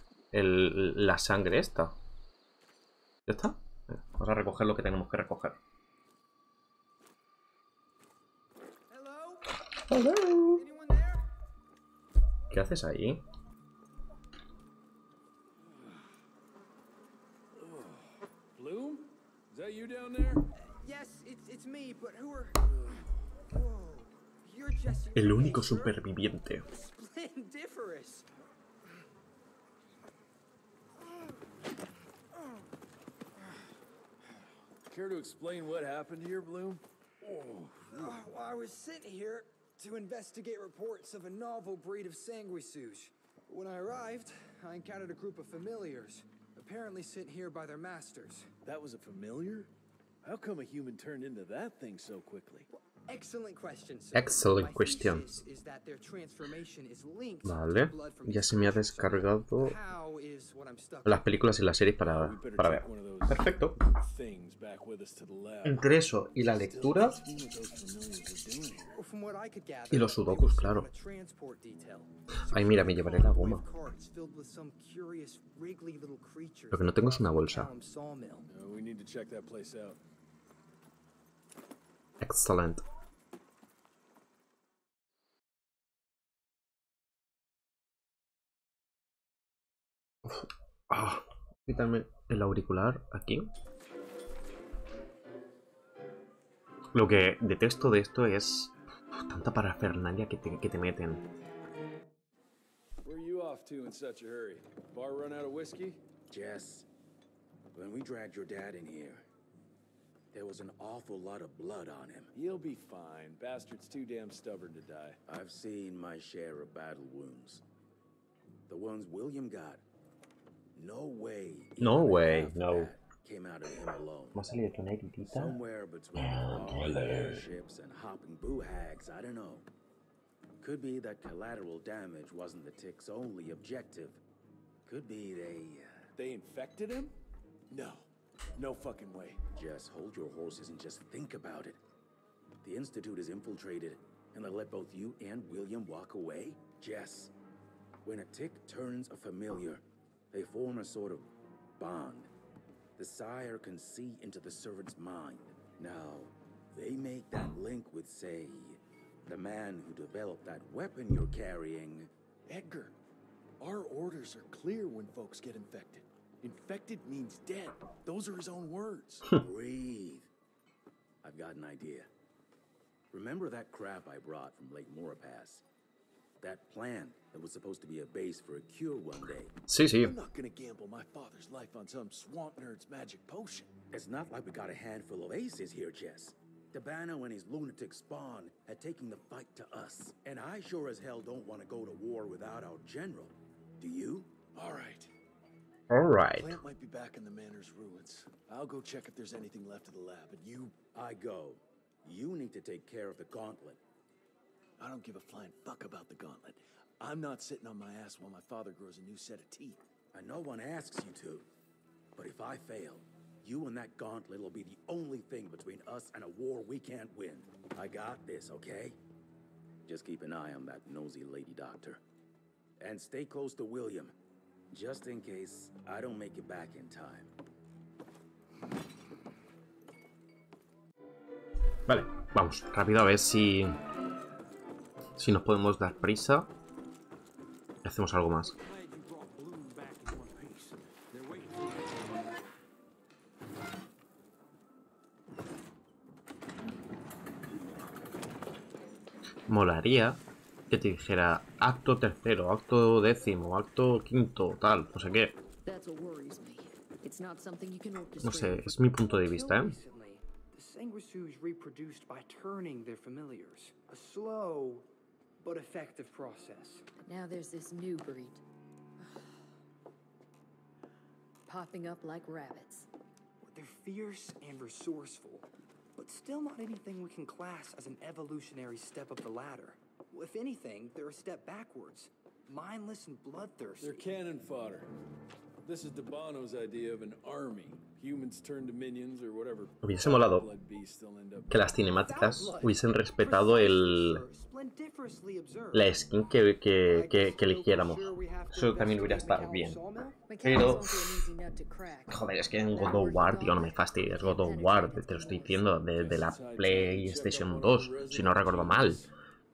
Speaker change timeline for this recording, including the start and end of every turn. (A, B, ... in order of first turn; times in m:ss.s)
0:00.3-0:02.0 A
0:03.3-0:05.6 A
0:08.9-0:09.6 B
0:09.9-0:10.6 A
0:10.4-0:11.2 B
0:12.5-0:13.2 A
0:17.6-0:20.4 C
0:20.7-0:22.7 B
0:23.5-0:26.0 B
0:25.1-0:26.6 A
0:26.7-0:28.3 B
0:34.9-0:38.1 C
0:37.9-0:48.5 B
0:48.6-0:49.7 C
0:50.2-0:52.7 C
0:52.7-1:01.3 B
0:54.1-0:55.3 A
0:57.4-0:59.8 A
1:01.0-1:03.8 A
1:02.0-1:05.9 C
1:05.6-1:07.2 A
1:06.5-1:08.9 C
1:08.9-1:18.5 B
1:09.9-1:10.9 A
1:12.5-1:13.7 A
1:16.7-1:17.7 A
1:18.5-1:20.0 C
1:22.2-1:22.8 A
1:30.2-1:33.5 A
1:36.9-1:41.2 A
1:43.0-1:46.0 C
1:46.3-1:46.9 D
1:47.7-1:49.3 D
1:50.3-1:52.3 D
1:52.3-1:55.2 C
1:55.3-1:57.6 D
1:58.7-1:59.8 D
2:00.8-2:04.4 D
2:01.8-2:02.9 A
2:04.4-2:05.6 A
2:05.2-2:09.7 D
2:06.2-2:07.4 A
2:10.6-2:14.2 D
2:14.8-2:16.0 D
2:16.2-2:17.1 C
2:17.7-2:18.1 C
2:18.6-2:19.4 C
2:19.6-2:21.8 D
2:22.6-2:27.3 D
2:28.0-2:32.3 D
2:33.0-2:42.1 D
2:42.5-2:42.9 C
2:43.6-2:49.3 C
2:49.3-2:50.3 D
2:51.2-2:52.1 D
2:53.1-2:55.6 D
2:56.4-2:59.5 D
2:59.7-3:00.2 A
3:00.0-3:03.7 C
3:03.9-3:14.4 D
3:14.5-3:15.1 C
3:15.9-3:16.6 A
3:16.3-3:20.7 C
3:20.9-3:23.8 D
3:24.8-3:29.8 C
3:30.1-3:31.5 D
3:32.2-3:39.0 D
3:39.9-3:42.0 D
3:42.8-3:44.2 D
3:44.7-3:47.3 D
3:51.9-3:53.8 A
3:55.2-3:56.5 A
3:57.8-3:58.6 A
3:58.6-4:01.6 B
4:00.5-4:00.7 C
4:09.5-4:15.4 A
4:15.6-4:18.8 E
4:18.2-4:19.8 A
4:19.0-4:24.9 B
4:25.4-4:26.8 B
4:27.0-4:28.4 E
4:31.5-4:32.9 E
4:33.4-4:44.1 B
4:43.8-4:44.9 C
4:45.6-4:51.6 C
4:49.8-4:50.5 A
4:51.5-4:54.2 A
4:52.0-4:56.0 B
4:55.7-4:59.8 A
4:56.9-5:00.2 B
5:00.3-5:05.8 E
5:00.4-5:01.2 A
5:02.1-5:09.1 A
5:06.0-5:09.1 C